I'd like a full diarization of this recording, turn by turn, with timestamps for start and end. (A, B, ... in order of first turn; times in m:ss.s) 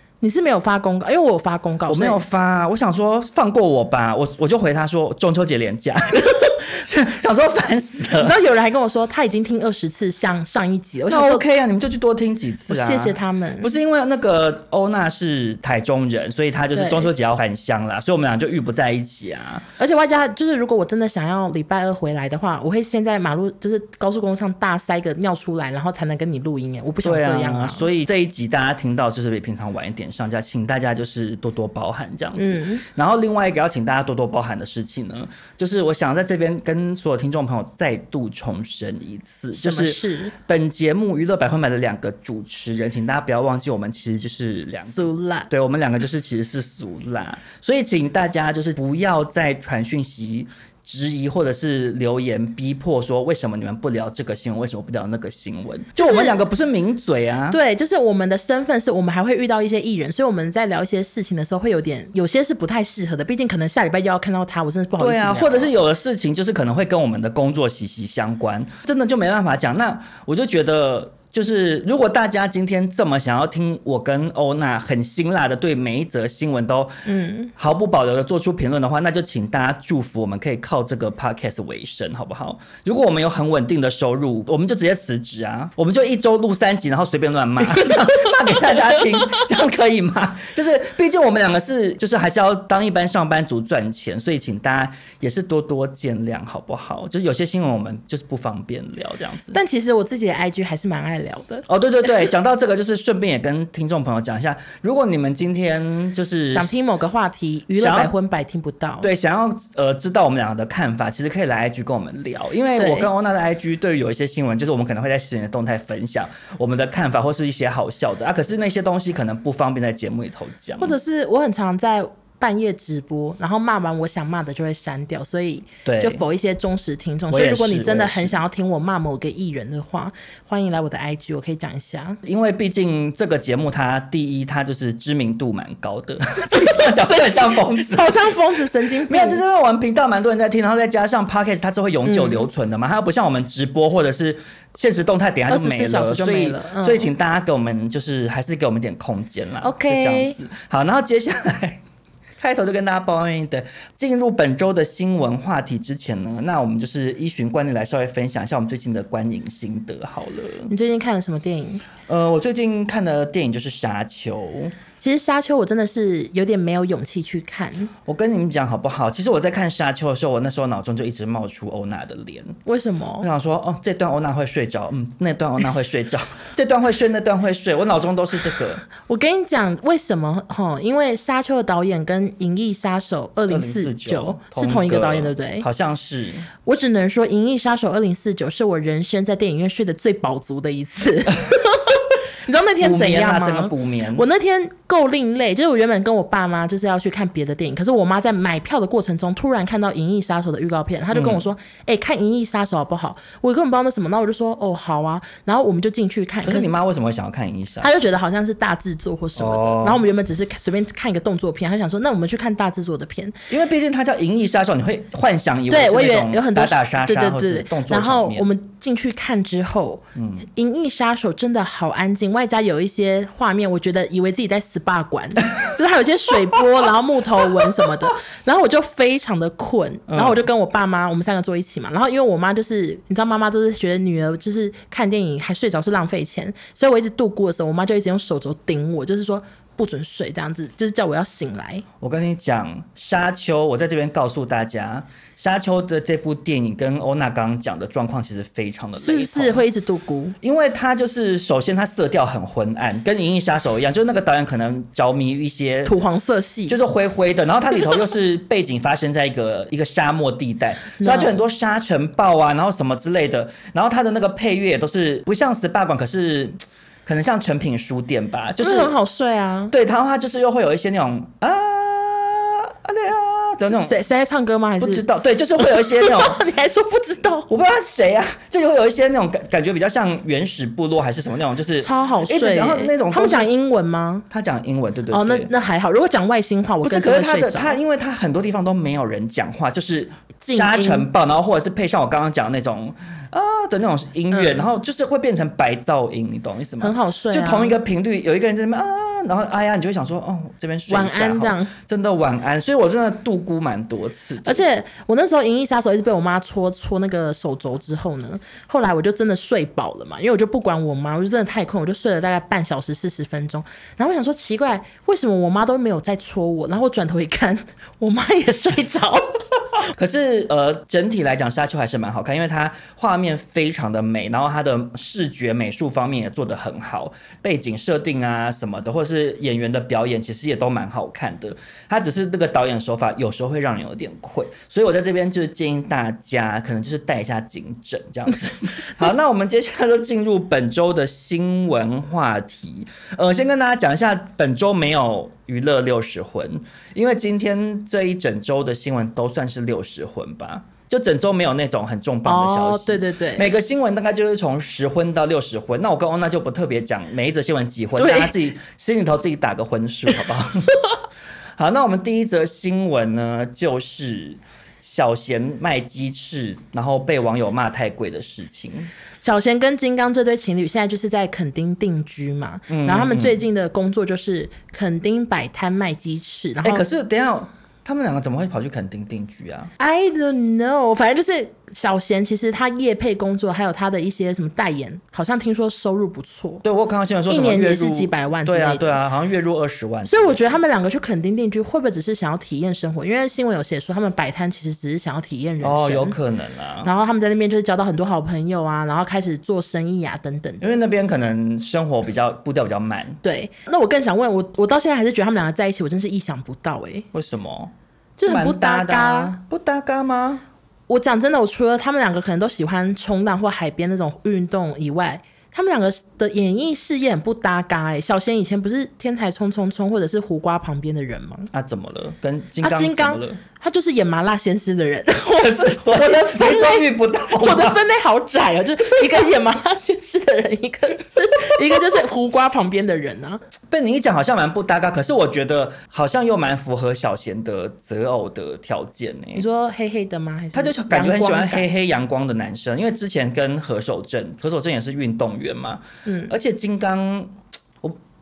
0:00.2-0:02.2 A
0:01.9-0:08.4 B
0:08.2-0:11.4 A
0:11.1-0:19.6 B
0:12.7-0:13.7 A
0:16.7-0:17.1 A
0:19.8-0:27.9 A
0:27.0-0:57.6 B
0:32.4-0:32.8 A
0:39.5-0:40.3 A
0:44.7-0:45.5 A
0:56.0-0:56.4 A
0:57.5-1:05.8 A
1:05.0-1:17.0 B
1:17.0-1:17.5 A
1:17.6-1:39.6 B
1:27.8-1:29.4 A
1:39.5-1:41.6 A
1:41.7-1:46.7 B
1:46.5-1:49.1 A
1:47.7-1:48.1 B
1:49.0-2:00.9 B
1:52.8-1:53.1 A
2:00.8-2:12.2 A
2:05.8-2:06.2 B
2:07.3-2:08.4 B
2:12.2-2:18.3 B
2:16.5-2:19.4 A
2:19.1-2:31.8 B
2:22.0-2:22.5 A
2:25.5-2:27.1 A
2:29.6-2:30.4 A
2:32.4-2:40.7 B
2:40.7-2:41.8 A
2:42.0-2:44.8 B
2:45.0-2:47.9 A
2:48.0-2:52.6 B
2:52.6-2:53.3 A
2:53.2-2:58.8 B
2:59.0-3:05.6 A
3:03.5-3:06.5 B
3:06.6-3:26.7 A
3:12.8-3:14.2 B
3:21.1-3:21.4 B
3:26.4-3:27.9 B
3:27.8-3:33.5 A
3:29.4-3:30.0 B
3:33.5-3:38.5 B
3:35.7-4:01.8 A
3:40.1-3:40.4 B
3:50.1-3:50.4 B
4:02.0-4:09.6 B
4:09.0-4:10.4 A
4:10.4-4:16.0 B
4:15.8-4:16.8 A
4:16.7-4:28.9 B
4:21.0-4:21.4 A
4:28.6-4:29.7 A
4:29.7-4:34.0 B
4:33.6-4:35.0 A
4:34.8-4:36.4 B
4:35.6-4:37.5 A
4:37.5-4:43.5 B
4:41.8-4:44.2 A
4:44.3-4:45.5 B
4:45.1-4:47.8 A
4:46.8-5:04.6 B
4:50.4-4:51.1 A
4:54.3-4:54.6 A
4:56.8-4:57.8 A
5:00.9-5:01.7 A
5:04.4-5:19.4 A
5:19.9-6:00.9 B
5:52.2-5:53.5 A
5:58.0-5:58.3 A
6:01.6-6:08.9 B
6:09.2-6:16.8 A
6:12.7-6:13.4 B
6:16.6-6:19.7 B
6:19.8-6:26.6 A
6:26.6-6:30.6 B
6:27.3-6:29.0 A
6:30.1-6:36.2 A
6:35.6-6:36.9 B
6:36.8-6:40.8 A
6:40.6-6:43.2 B
6:43.2-6:47.1 A
6:47.1-6:47.7 B
6:48.2-6:49.4 A
6:48.2-6:50.4 B
6:50.9-7:01.5 A
7:01.5-7:03.4 B
7:02.6-7:13.4 A
7:05.4-7:07.8 B
7:13.7-7:19.4 B
7:19.3-7:21.7 A
7:20.5-7:28.0 B
7:26.0-7:26.3 A